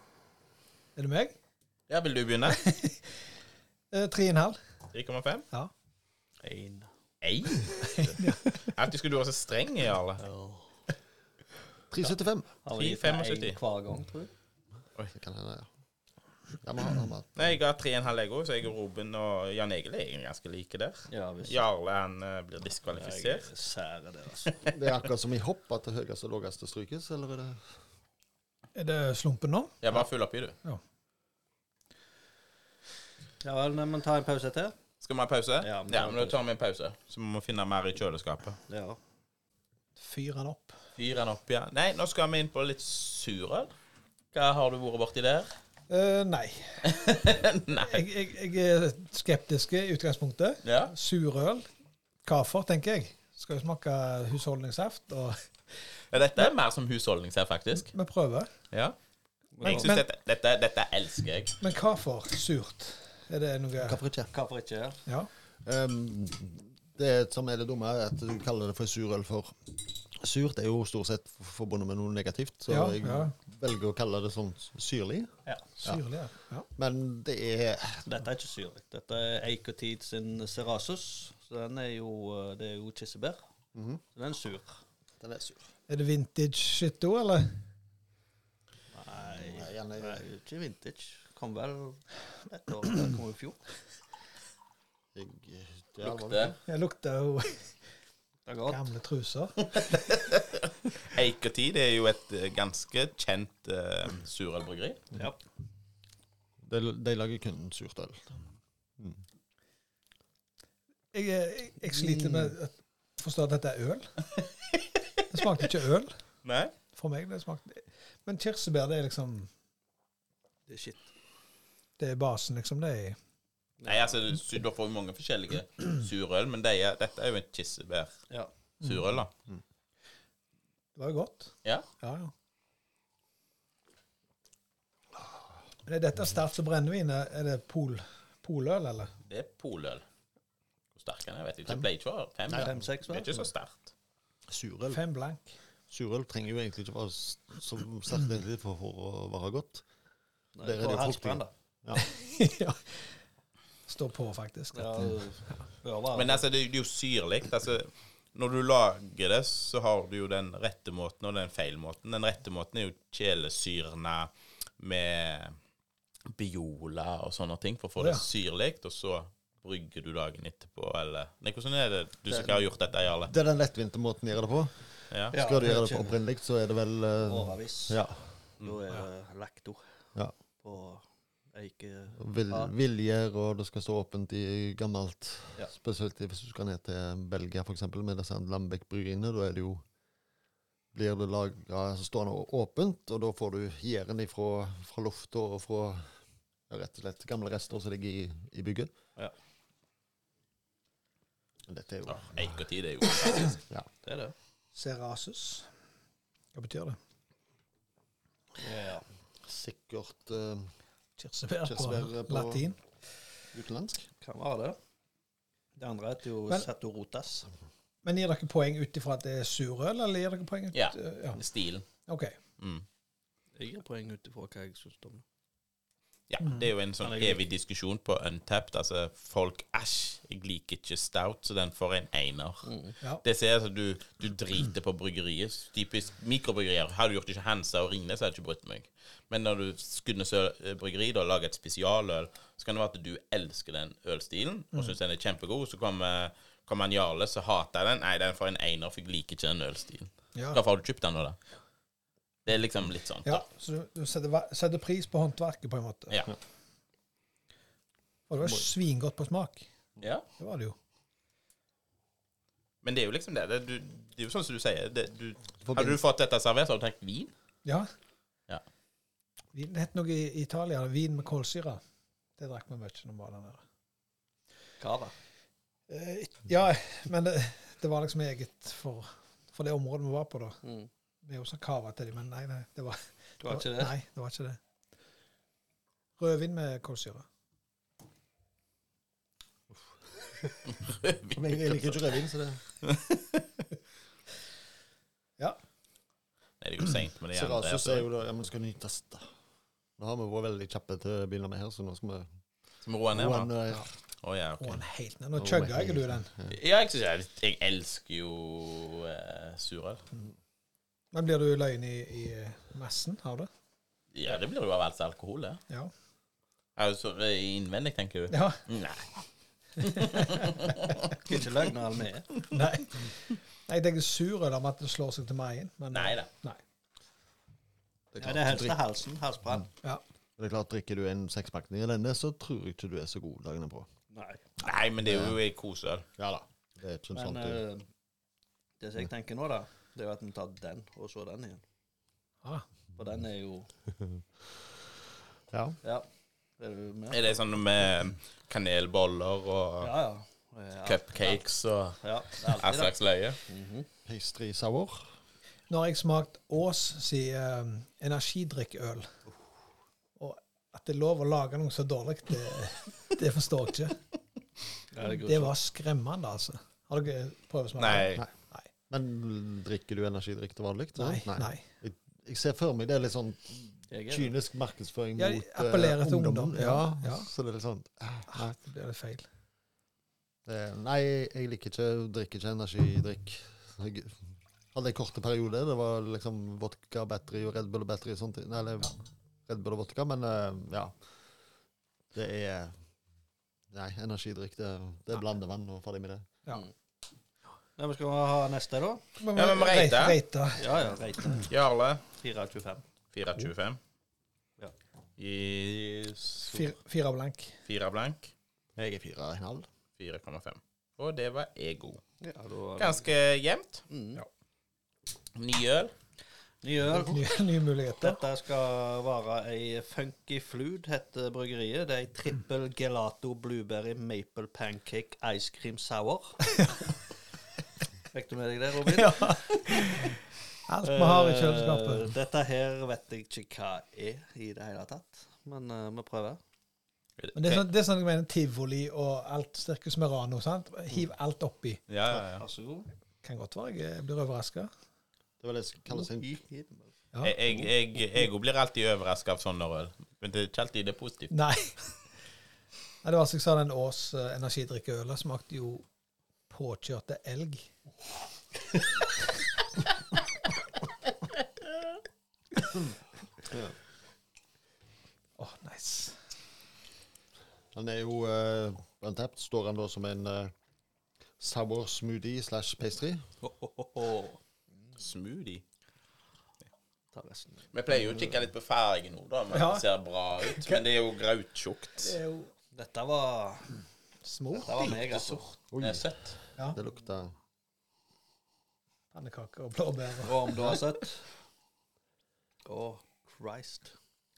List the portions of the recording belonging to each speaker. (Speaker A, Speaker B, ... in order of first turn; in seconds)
Speaker A: 0.9-1.4, 2.5-3.2, 3.9-4.6, 7.9-8.6, 28.7-29.8, 40.0-40.8, 45.9-51.6, 52.2-55.5, 57.9-58.5, 59.6-60.0, 61.6-64.0, 72.7-73.3, 75.8-76.7, 85.9-87.6, 96.7-97.7, 98.7-99.9, 111.1-114.1, 115.3-116.1, 116.9-119.5, 122.0-123.2, 130.9-132.3, 135.8-139.1, 144.9-145.5, 151.9-153.1, 153.9-155.1, 168.0-168.2, 204.7-205.7, 206.5-207.0, 211.2-212.8, 218.0-221.4, 222.1-222.4, 226.4-226.7, 253.2-256.2, 258.3-259.7, 260.4-260.7, 269.5-271.8, 272.4-273.6, 275.9-280.6, 281.2-284.6, 286.2-287.2, 304.6-306.3, 311.1-313.5, 318.3-318.6, 319.8-320.9, 322.5-326.6, 355.7-359.1, 360.2-364.0, 365.0-368.7, 371.0-371.6, 375.2-377.3, 378.3-379.2, 399.2-400.8, 406.4-407.5, 416.9-418.2, 428.8-430.1, 430.7-432.1, 437.3-441.8, 443.2-444.7, 451.3-451.8, 453.0-455.8, 456.5-457.7, 465.4-466.2, 479.5-479.9, 480.4-480.9, 482.0-482.5, 484.2-484.9, 489.1-490.8
Speaker B: 1.9-2.6, 4.9-5.5, 7.2-10.2, 12.7-13.6, 17.4-23.5, 29.8-30.6, 35.0-38.6, 41.0-43.7, 44.3-45.5, 46.9-48.0, 50.6-50.9, 56.1-57.9, 59.6-61.6, 96.0-96.5, 100.1-105.0, 116.4-116.7, 123.9-128.1, 128.8-129.3, 139.3-140.0, 140.9-143.9, 156.1-165.6, 166.3-173.3, 175.1-175.3, 202.1-203.6, 220.7-221.8, 222.6-222.8, 226.3-232.7, 233.2-251.4, 252.4-253.4, 262.8-267.3, 290.9-291.3, 292.8-293.4, 296.6-298.1, 302.8-303.5, 304.2-304.8, 306.5-310.0, 314.1-315.6, 316.8-319.2, 319.8-321.6, 325.9-326.3, 334.6-336.1, 347.1-349.9, 350.8-353.4, 367.8-368.2, 399.3-400.2, 401.4-402.0, 403.1-403.8, 405.2-406.7, 407.6-408.3, 410.0-412.0, 412.8-413.8, 415.3-415.9, 437.2-437.6, 441.9-442.4, 447.2-451.3, 474.9-475.6, 477.7-482.1, 484.8-486.4
Speaker C: 6.4-6.9, 10.2-10.7, 12.6-14.3, 21.1-21.6, 22.9-24.6, 33.4-34.8, 35.6-36.4, 38.7-39.0, 59.6-59.9, 64.3-65.0, 78.0-83.4, 84.1-84.8, 88.9-93.6, 98.5-98.8, 105.1-105.4, 111.9-112.5, 120.7-121.1, 123.8-124.2, 142.6-143.4, 150.5-151.5, 154.7-156.4, 175.3-176.1, 177.2-178.0, 178.6-179.8, 180.6-182.7, 204.0-204.3, 208.6-209.0, 214.2-214.8, 215.8-217.5, 223.6-225.2, 227.0-227.4, 232.6-232.9, 274.8-275.1, 280.6-280.9, 283.4-283.9, 321.1-322.3, 328.2-329.7, 334.1-334.5, 337.1-337.9, 338.8-341.6, 342.9-343.7, 346.6-347.4, 349.8-351.4, 352.0-352.9, 353.5-353.9, 364.9-365.5, 373.9-374.3, 397.8-399.0, 400.6-401.5, 402.1-402.8, 412.2-413.1, 413.9-414.2, 416.6-417.3, 418.0-426.4, 428.1-429.9, 430.8-436.4, 442.4-442.9, 445.9-446.9, 473.4-474.4, 477.1-478.0, 482.7-483.7, 484.5-485.5, 490.2-491.2, 492.6-493.9
Speaker D: 11.9-12.5, 15.1-15.7, 16.6-17.6, 24.7-27.6, 63.8-64.3, 65.6-76.0, 76.7-78.1, 83.7-84.0, 85.2-85.7, 89.3-90.2, 95.1-96.6, 106.6-108.4, 142.5-142.7, 144.5-145.0, 145.9-149.8, 150.6-152.0, 172.3-172.6, 173.3-178.2, 182.2-189.8, 190.9-196.1, 196.7-198.9, 201.7-202.6, 209.4-210.7, 211.6-212.6, 213.5-214.1, 265.6-266.0, 291.3-292.6, 297.3-299.3, 300.0-302.3, 303.1-303.9, 305.4-306.6, 328.1-328.8, 330.4-333.9, 335.0-335.4, 336.2-337.6, 345.5-345.8, 354.1-355.1, 368.9-378.5, 380.4-390.9, 392.1-392.8, 393.7-396.3, 408.8-409.7, 445.4-446.4, 463.5-463.7, 467.7-470.5, 471.4-473.2, 485.7-487.3